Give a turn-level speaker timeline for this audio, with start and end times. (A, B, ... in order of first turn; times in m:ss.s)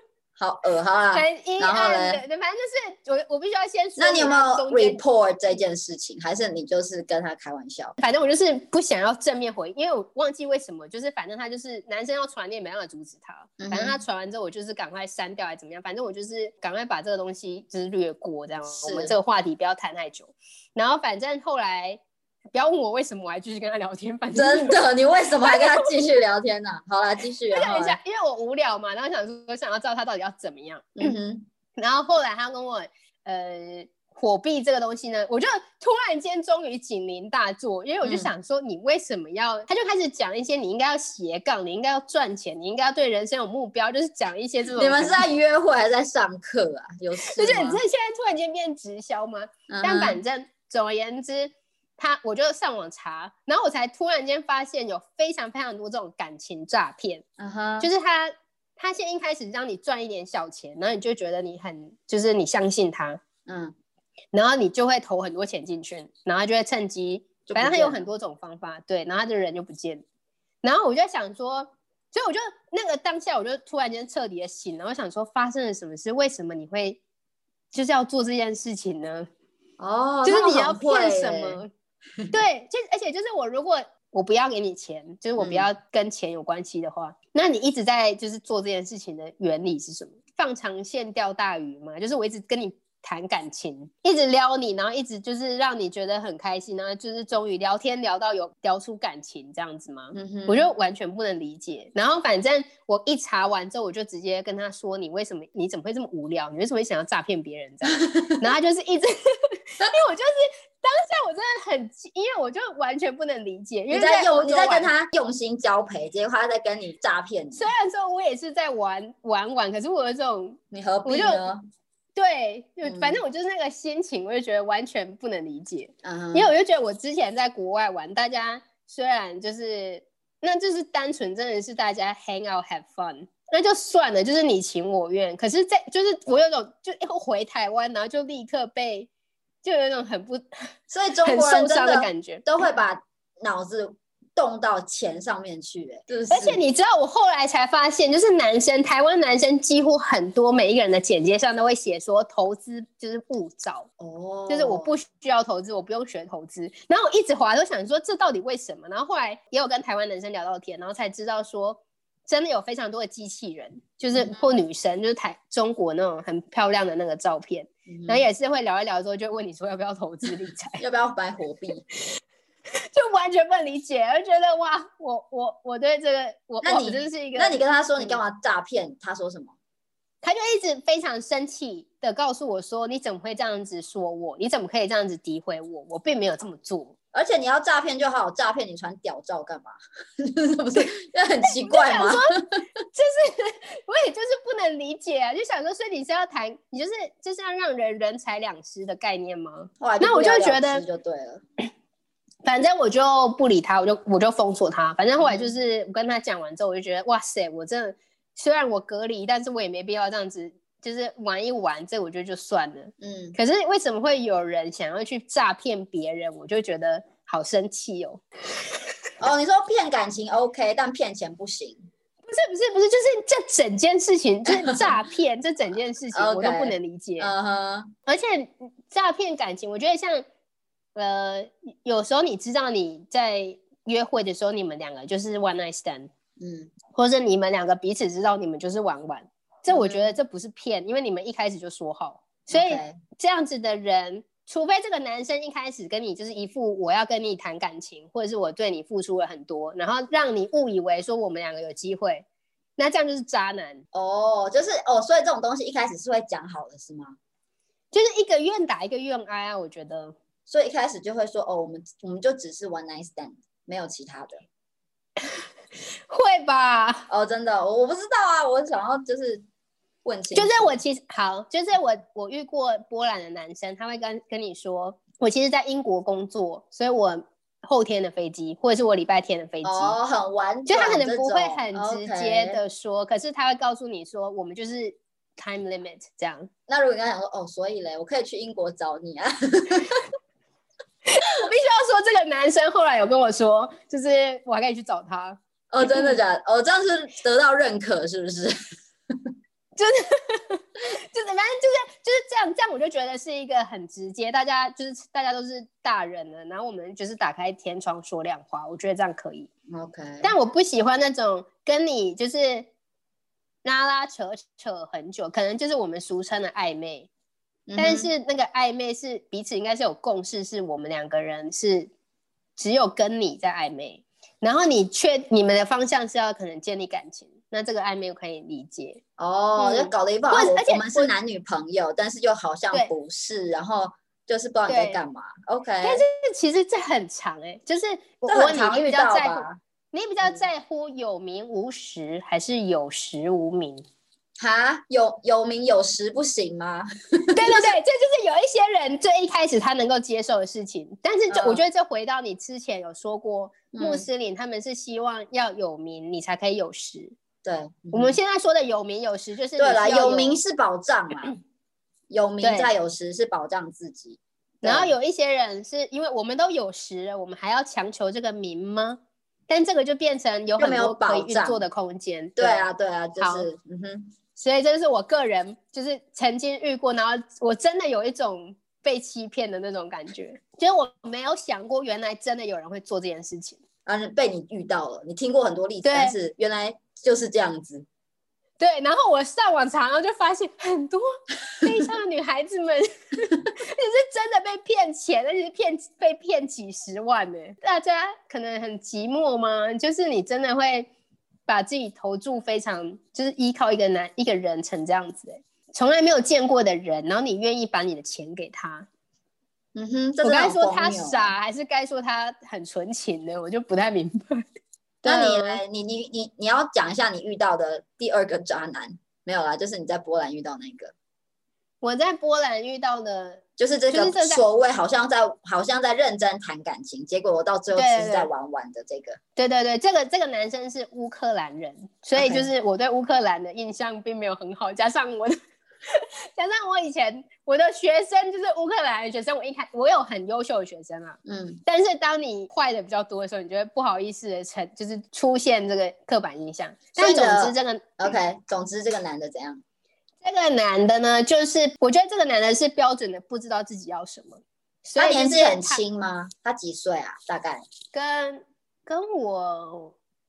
0:00.4-0:02.2 A
0:01.1-0:05.0 B
0:04.0-0:08.0 A
0:08.0-0:22.0 B
0:13.6-0:14.0 A
0:18.8-0:19.1 A
0:22.5-0:24.8 B
0:24.3-0:28.0 A
0:25.4-0:25.9 B
0:27.5-0:31.2 B
0:31.0-0:31.5 A
0:31.8-0:45.3 B
0:38.0-0:38.3 A
0:44.8-0:47.8 A
0:47.2-0:57.2 B
0:49.7-0:50.2 A
0:57.4-0:57.9 A
0:57.8-1:03.2 B
1:03.5-1:03.7 A
1:04.3-1:10.0 B
1:07.5-1:08.0 A
1:10.6-1:17.0 B
1:17.7-1:19.3 B
1:19.8-1:21.6 A
1:20.2-1:21.7 B
1:22.3-1:54.9 B
1:25.4-1:25.7 A
1:40.1-1:40.7 A
1:48.1-1:48.5 A
1:53.9-1:57.7 A
1:57.5-2:01.5 B
2:00.7-2:01.6 A
2:02.2-2:19.1 B
2:02.8-2:03.2 A
2:06.0-2:06.5 A
2:19.6-2:22.5 B
2:20.9-2:26.6 A
2:26.3-2:33.9 B
2:34.0-2:34.9 A
2:34.5-2:50.8 B
2:44.2-2:44.4 A
2:47.9-2:48.3 A
2:50.8-2:51.8 A
2:52.7-2:58.2 B
2:56.6-2:59.6 A
3:00.2-3:06.9 B
3:07.1-3:12.6 A
3:11.4-3:12.3 B
3:12.9-3:20.8 B
3:19.8-3:21.4 A
3:22.4-3:38.2 B
3:25.2-3:25.5 A
3:33.0-3:33.4 A
3:39.2-3:41.8 A
3:42.3-3:47.3 B
3:44.6-3:44.9 A
3:46.1-3:47.9 A
3:48.1-3:50.2 B
3:51.0-3:56.1 B
3:56.4-3:56.7 A
3:56.9-4:12.3 B
3:59.7-4:00.1 A
4:02.5-4:03.0 A
4:12.8-4:13.8 B
4:13.9-4:17.2 A
4:17.9-4:20.2 B
4:20.5-4:24.4 A
4:26.1-4:27.1 B
4:27.1-4:29.4 A
4:30.0-4:30.7 A
4:30.4-4:40.0 B
4:39.6-4:42.6 A
4:40.7-4:46.5 B
4:46.7-4:50.0 A
4:51.1-4:56.2 B
4:55.7-4:58.6 A
4:59.8-5:09.5 B
5:09.7-5:10.3 A
5:10.2-5:12.7 B
5:13.6-5:17.1 B
5:17.7-5:18.1 A
5:17.8-5:21.9 B
5:22.6-5:29.0 B
5:29.2-5:36.0 A
5:29.6-5:31.1 B
5:34.7-5:35.0 B
5:35.8-5:43.8 B
5:38.3-5:39.6 A
5:44.4-5:47.8 A
5:47.3-5:57.2 B
5:51.3-5:51.6 A
5:53.7-5:54.1 A
5:57.4-5:58.2 A
5:57.9-6:00.4 B
5:59.6-6:01.4 A
6:02.1-6:04.9 A
6:02.4-6:02.7 B
6:04.6-6:12.7 B
6:10.6-6:11.6 A
6:12.4-6:14.1 A
6:13.2-6:13.5 B
6:14.4-6:23.6 B
6:23.9-6:27.9 A
6:25.8-6:26.2 B
6:28.6-6:31.1 B
6:31.6-6:40.9 B
6:41.5-6:48.9 B
6:49.8-6:51.3 A
6:50.2-6:54.4 B
6:55.0-7:00.9 A
6:55.1-6:55.6 B
7:01.8-7:04.4 B
7:03.6-7:09.2 A
7:07.7-7:08.3 B
7:09.4-7:15.4 B
7:12.2-7:12.5 A
7:15.9-7:27.9 B
7:21.3-7:21.6 A
7:27.0-7:29.6 A
7:30.2-7:35.8 B
7:35.0-7:37.6 A
7:37.9-7:40.0 B